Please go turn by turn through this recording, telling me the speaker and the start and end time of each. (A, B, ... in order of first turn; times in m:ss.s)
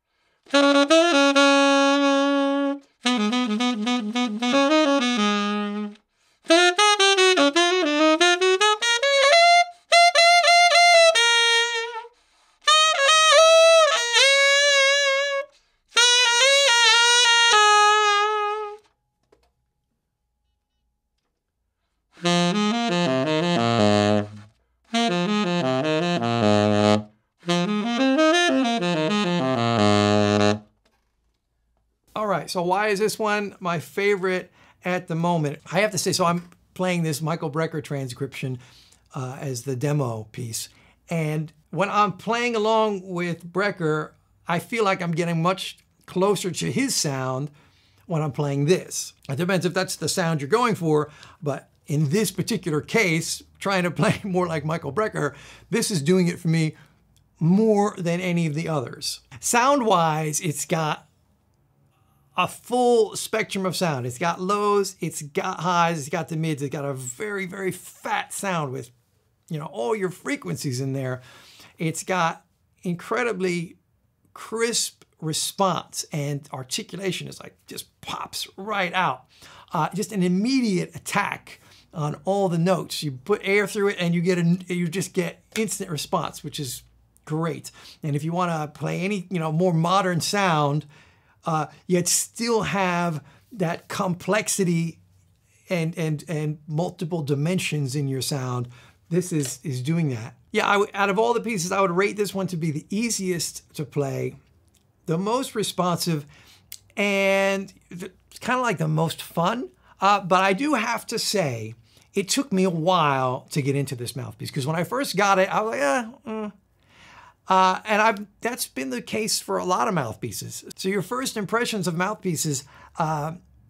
0:32.1-0:38.6 A
0:39.1-0:47.5 A
0:48.1-0:56.7 A
0:57.4-1:01.0 A
1:02.4-1:08.9 A
1:09.5-1:11.2 A
1:11.8-1:13.8 A
1:14.3-1:30.9 A
1:31.4-1:35.0 A
1:35.7-1:44.4 A
1:45.0-1:46.3 A
1:47.0-1:56.5 A
1:57.5-2:03.4 A